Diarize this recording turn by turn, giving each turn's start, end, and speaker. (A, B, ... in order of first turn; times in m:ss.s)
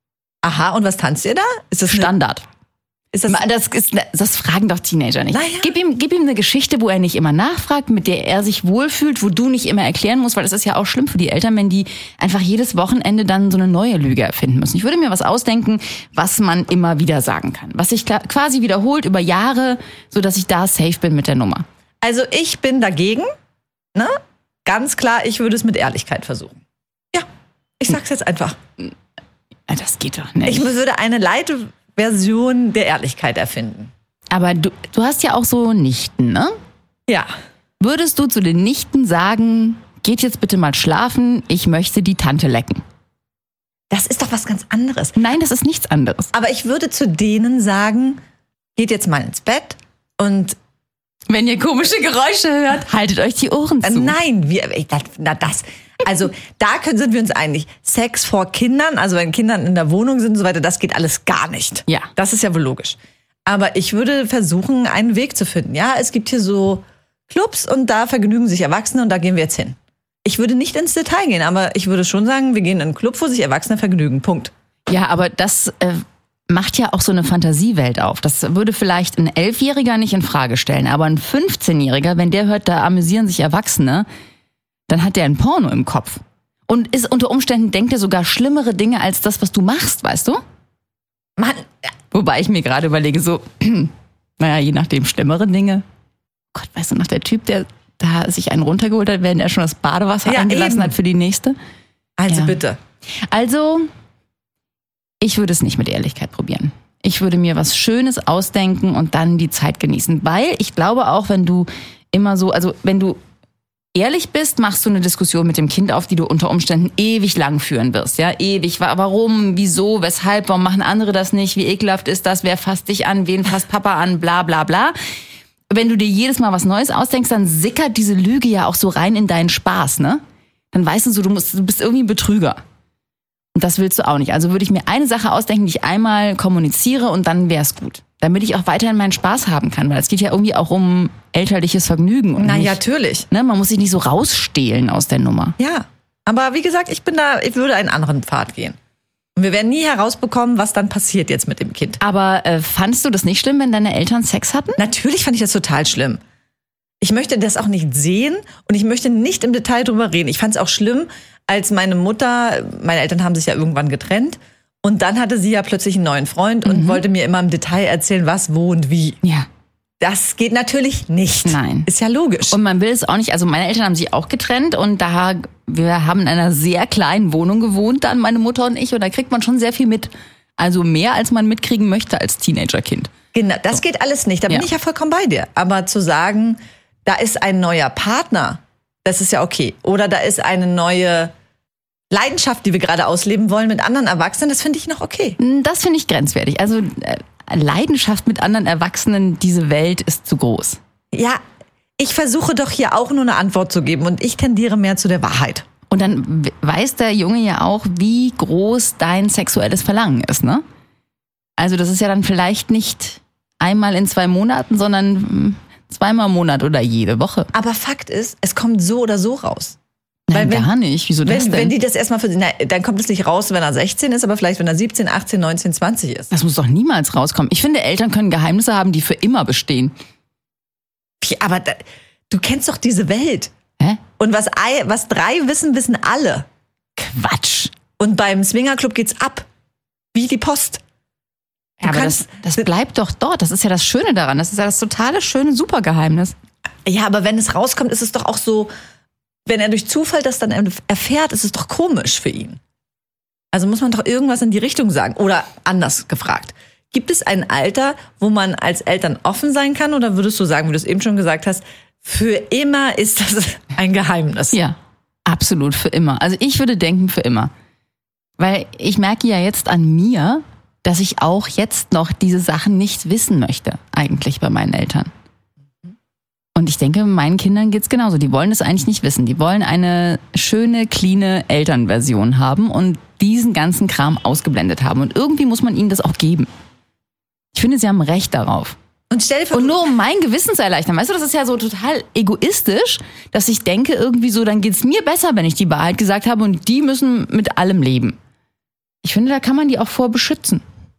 0:00.4-0:02.1 A
0:01.9-0:02.4 B
0:03.1-0:03.4 A
0:03.3-0:21.6 B
0:05.3-0:05.7 A
0:22.0-0:23.3 A
0:23.9-0:26.6 A
0:27.8-0:28.6 A
0:29.7-0:30.7 B
0:30.4-0:33.9 A
0:34.3-0:36.5 B
0:37.8-0:42.8 B
0:43.9-0:45.2 A
0:45.2-0:46.3 B
0:46.3-0:48.2 A
0:48.8-0:50.6 A
0:51.3-0:54.2 B
0:53.8-1:14.5 A
1:14.9-1:24.0 B
1:24.9-1:30.4 B
1:31.4-1:31.6 A
1:32.1-1:35.8 B
1:36.5-1:41.6 B
1:40.2-1:40.9 A
1:42.2-1:42.8 A
1:42.3-1:42.6 B
1:43.3-1:43.9 B
1:45.2-1:53.2 B
1:53.9-2:04.9 B
2:05.7-2:10.2 B
2:10.7-2:12.6 B
2:13.5-2:25.6 B
2:22.4-2:23.3 A
2:25.6-2:28.8 A
2:29.4-2:32.0 A
2:32.0-2:34.8 B
2:34.8-2:36.2 A
2:37.0-2:49.2 A
2:46.6-2:47.0 B
2:50.0-2:52.6 A
2:51.4-2:51.9 B
2:52.5-3:03.1 B
3:03.3-3:11.3 A
3:12.1-3:15.4 A
3:15.4-3:20.8 B
3:21.1-3:21.4 A
3:22.0-3:25.6 A
3:25.9-3:30.6 B
3:31.6-3:37.5 B
3:37.5-3:39.8 A
3:40.3-3:41.7 B
3:40.3-3:40.7 A
3:41.2-3:46.3 A
3:46.3-3:49.9 B
3:51.2-3:53.5 A
3:54.2-3:56.4 A
3:57.0-3:57.7 B
3:58.0-3:59.4 A
4:00.1-4:00.8 A
4:01.8-4:02.6 A
4:01.8-4:06.3 B
4:06.8-4:08.7 A
4:09.4-4:12.6 A
4:13.5-4:24.6 A
4:24.5-4:27.5 B
4:28.4-4:35.1 B
4:36.5-4:46.5 B
4:47.5-4:48.8 B
4:49.1-4:49.9 A
4:49.5-4:58.2 B
4:59.0-5:00.6 B